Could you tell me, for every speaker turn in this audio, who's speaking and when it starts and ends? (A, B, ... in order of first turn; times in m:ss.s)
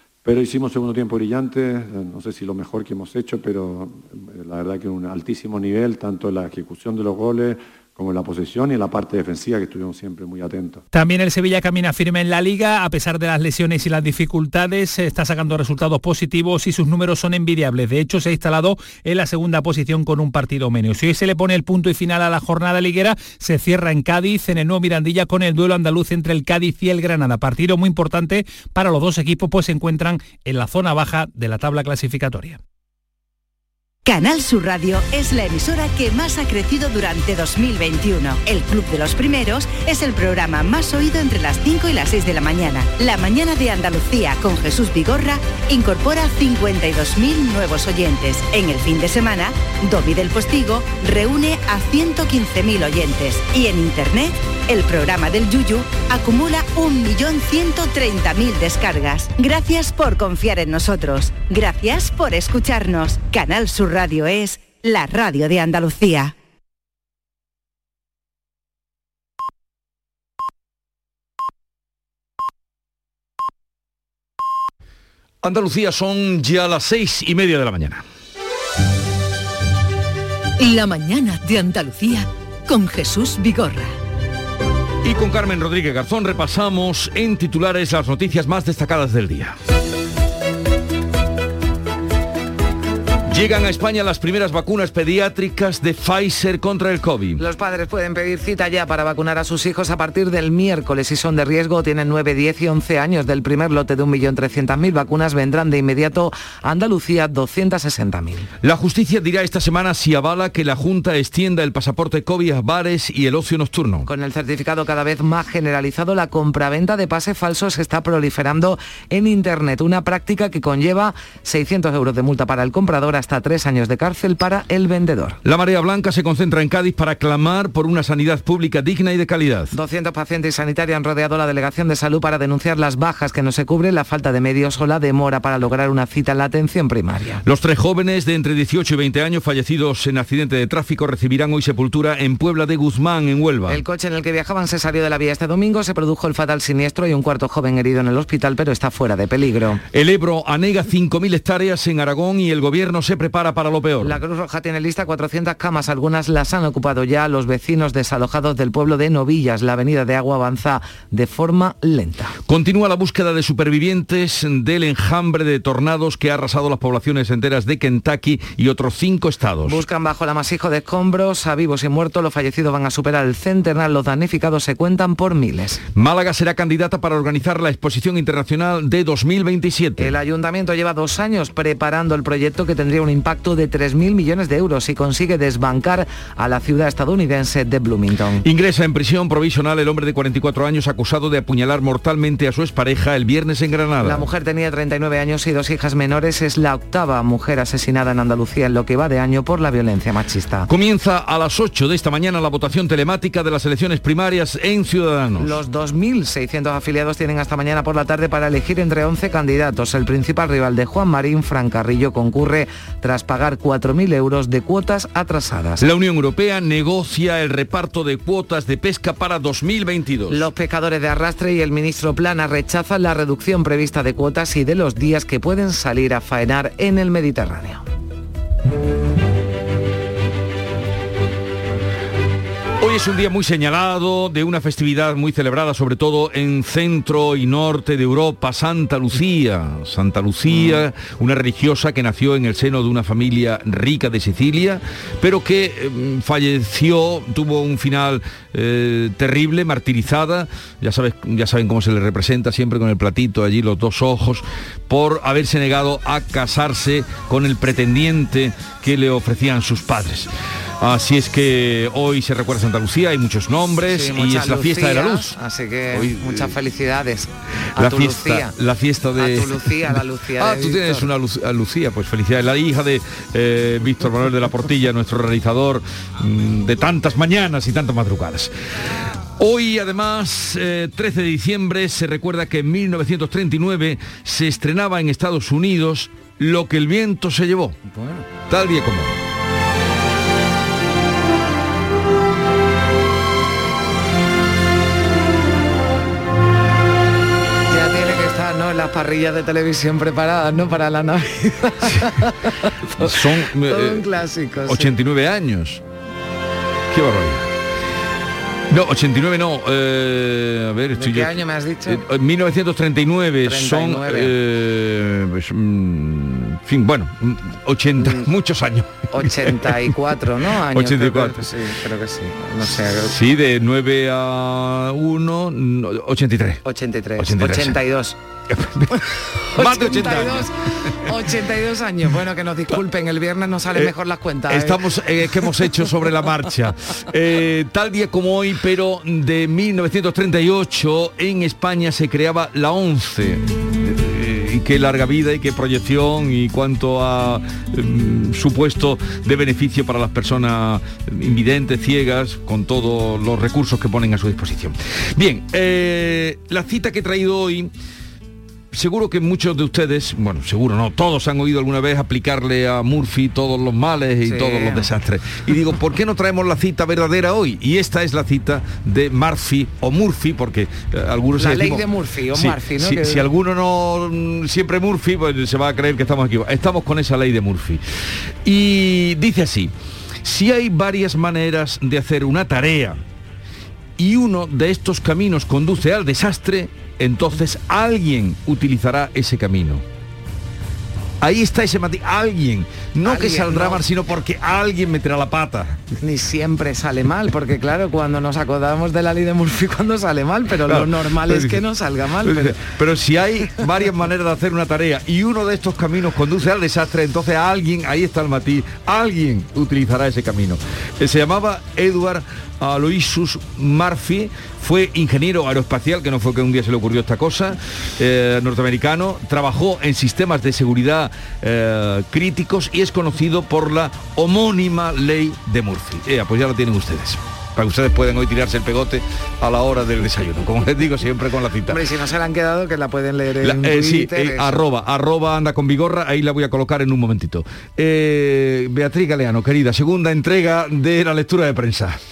0:00.2-0:10.8 A
0:10.9-0:32.6 B
0:34.0-1:06.3 C
1:15.4-1:18.0 D
1:20.6-1:23.9 E
1:25.0-1:29.5 D
1:33.3-1:37.4 D
1:37.4-1:48.5 F
1:48.6-1:54.1 D
1:54.0-2:05.4 F
2:05.4-2:09.7 D
2:09.7-2:17.4 F
2:17.4-2:23.8 D
2:23.7-2:29.8 F
2:29.9-2:34.2 D
2:34.0-2:42.3 F
2:42.5-2:49.8 D
2:49.6-2:55.8 F
2:55.9-3:00.1 D
3:00.0-3:08.4 F
3:08.4-3:14.2 D
3:14.0-3:20.7 F
3:20.7-3:25.5 D
3:25.4-3:35.8 F
3:35.8-3:40.4 D
3:40.3-3:47.8 F
3:52.8-4:20.3 D
4:00.5-4:00.8 F
4:20.8-4:25.4 D
4:23.9-4:28.5 F
4:25.9-4:26.5 D
4:27.8-4:38.5 D
4:29.1-4:31.1 F
4:39.4-4:47.8 D
4:47.8-4:48.2 F
4:48.5-4:49.2 D
4:57.7-5:04.9 F
5:03.0-5:04.0 D
5:04.6-5:05.8 D
5:06.9-5:07.5 D
5:08.7-5:11.4 D
5:11.0-5:12.0 F
5:11.9-5:19.7 D
5:13.4-5:14.3 F
5:18.0-5:18.3 F
5:19.1-5:23.2 F
5:20.7-5:21.4 D
5:23.1-5:26.6 D
5:26.6-5:28.2 F
5:27.2-5:27.8 D
5:28.5-5:29.0 D
5:29.6-5:30.5 D
5:29.6-5:34.8 F
5:34.5-5:57.7 D
5:58.7-6:17.8 D
6:04.2-6:04.9 F
6:11.4-6:13.3 F
6:18.4-6:19.7 D
6:20.2-6:23.0 D
6:24.0-6:29.8 D
6:31.2-6:35.8 D
6:33.0-6:33.8 F
6:36.0-6:42.6 F
6:40.7-6:41.6 D
6:42.2-7:11.8 D
7:11.7-7:14.6 F
7:13.4-7:22.0 D